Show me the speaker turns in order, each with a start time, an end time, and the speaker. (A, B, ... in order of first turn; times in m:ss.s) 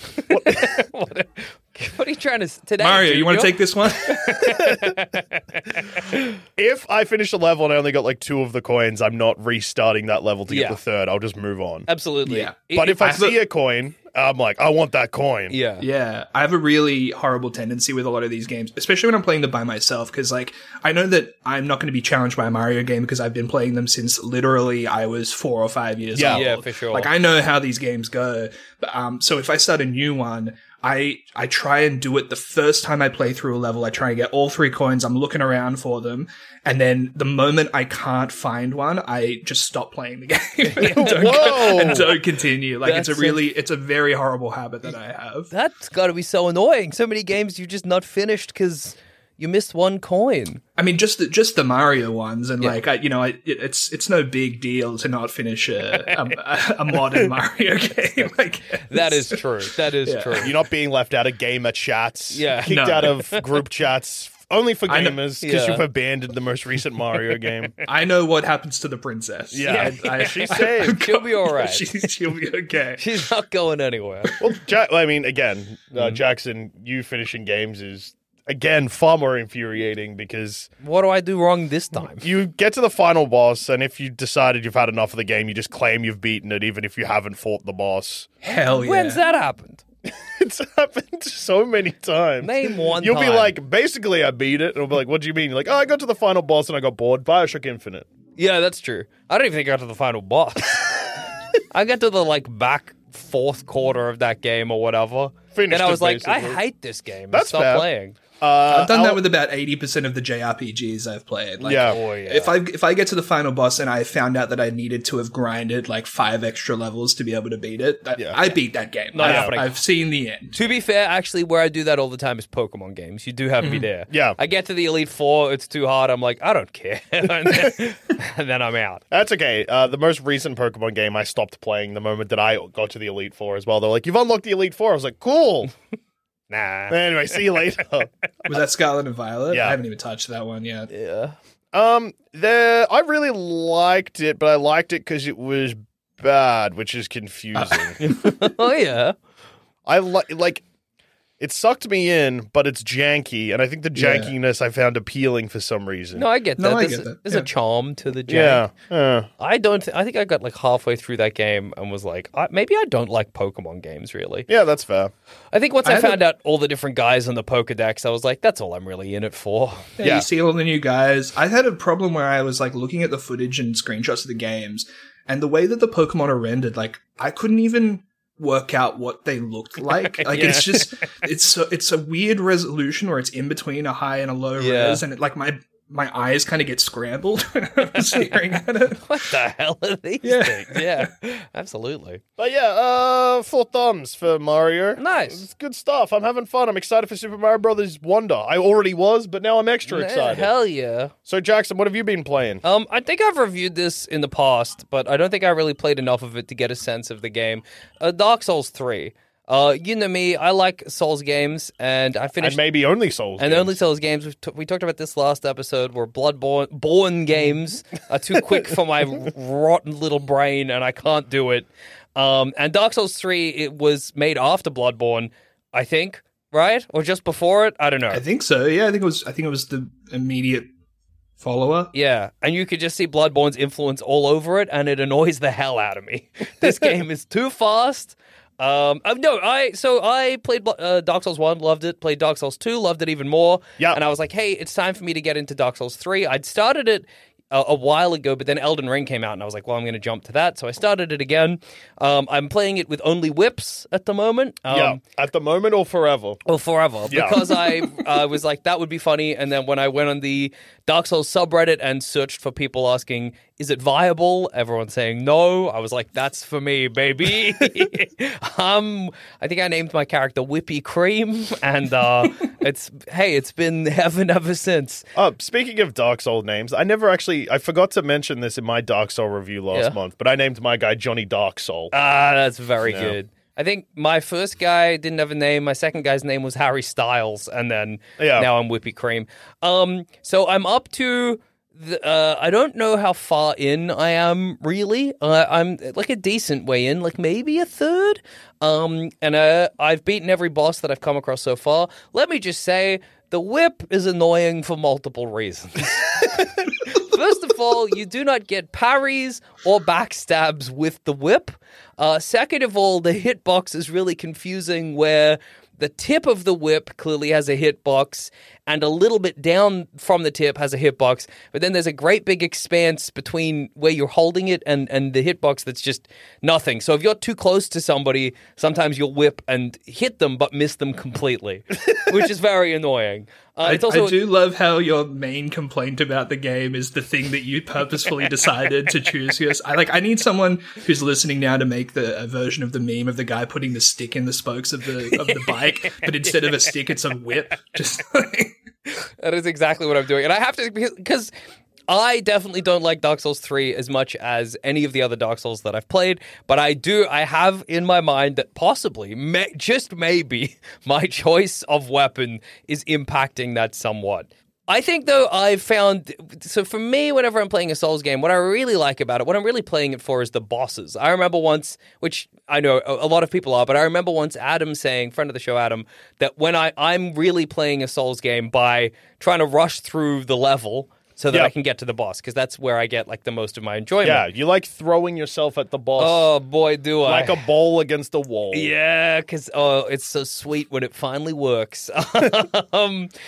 0:00.3-0:00.8 A
0:00.3-0:06.3 B
0:02.8-0:04.5 C
0:04.5-0:04.8 A
0:06.6-0:11.9 A
0:10.5-0:10.8 B
0:11.9-0:13.1 B
0:12.2-0:13.4 C
0:12.7-0:15.6 A
0:15.5-0:15.9 B
0:15.8-0:45.5 C
0:26.1-0:26.4 A
0:26.2-0:27.1 B
0:40.7-0:42.2 B
0:40.8-0:42.2 A
0:42.8-0:43.4 B
0:45.5-0:50.6 B
0:50.8-0:59.4 C
0:58.8-1:00.5 B
1:00.0-1:00.5 C
1:00.4-1:07.7 A
1:02.3-1:03.4 B
1:02.6-1:03.1 C
1:04.9-1:05.2 C
1:05.4-1:05.8 B
1:07.8-1:13.0 C
1:09.5-1:11.0 A
1:09.6-1:11.9 B
1:13.0-1:14.3 B
1:14.4-1:20.7 A
1:15.9-1:16.2 B
1:20.8-1:22.3 B
1:22.2-1:28.3 A
1:28.4-1:29.2 C
1:28.6-1:29.8 B
1:30.0-1:38.0 A
1:32.4-1:33.6 B
1:38.4-1:41.0 B
1:41.7-1:48.2 B
1:45.5-1:46.6 A
1:47.3-1:47.9 A
1:48.4-1:49.2 A
1:48.7-2:00.6 C
1:51.6-1:52.0 A
1:51.6-1:52.6 B
1:58.2-1:58.5 A
1:59.1-1:59.8 B
1:59.2-1:59.6 A
2:00.5-2:09.0 B
2:04.1-2:04.4 A
2:09.1-2:15.7 A
2:16.5-2:17.4 B
2:16.9-2:18.1 A
2:18.5-2:20.9 C
2:19.5-2:19.8 A
2:20.9-2:21.3 B
2:21.7-2:28.0 A
2:27.6-2:28.4 C
2:28.0-2:29.2 B
2:29.8-2:30.6 A
2:31.4-2:36.3 A
2:34.0-2:34.3 C
2:36.1-2:38.6 B
2:36.6-2:37.5 C
2:38.3-2:39.3 A
2:39.4-2:44.5 B
2:44.5-2:45.1 A
2:45.5-2:49.9 B
2:45.8-2:46.2 C
2:50.0-3:09.3 C
2:50.0-2:50.2 A
3:00.2-3:01.0 B
3:04.6-3:05.0 B
3:08.0-3:08.4 B
3:09.0-3:12.2 B
3:10.2-3:11.1 C
3:12.4-3:20.5 A
3:15.0-3:15.4 B
3:19.8-3:21.1 B
3:21.2-3:22.6 A
3:22.6-3:32.7 B
3:32.4-3:33.8 A
3:33.4-3:48.2 B
3:48.1-3:50.7 C
3:51.4-3:51.9 C
3:51.9-4:15.0 B
4:14.7-4:16.4 A
4:16.4-4:35.0 B
4:17.1-4:17.6 A
4:35.1-4:41.9 A
4:39.7-4:40.0 B
4:41.9-5:34.2 B
4:42.8-4:43.2 A
4:48.2-4:48.5 A
5:33.6-5:48.5 C
5:45.1-5:46.7 B
5:49.1-5:51.3 B
5:51.9-6:24.2 B
6:24.0-6:26.3 A
6:26.0-6:27.4 B
6:27.0-6:28.7 A
6:28.5-6:33.1 B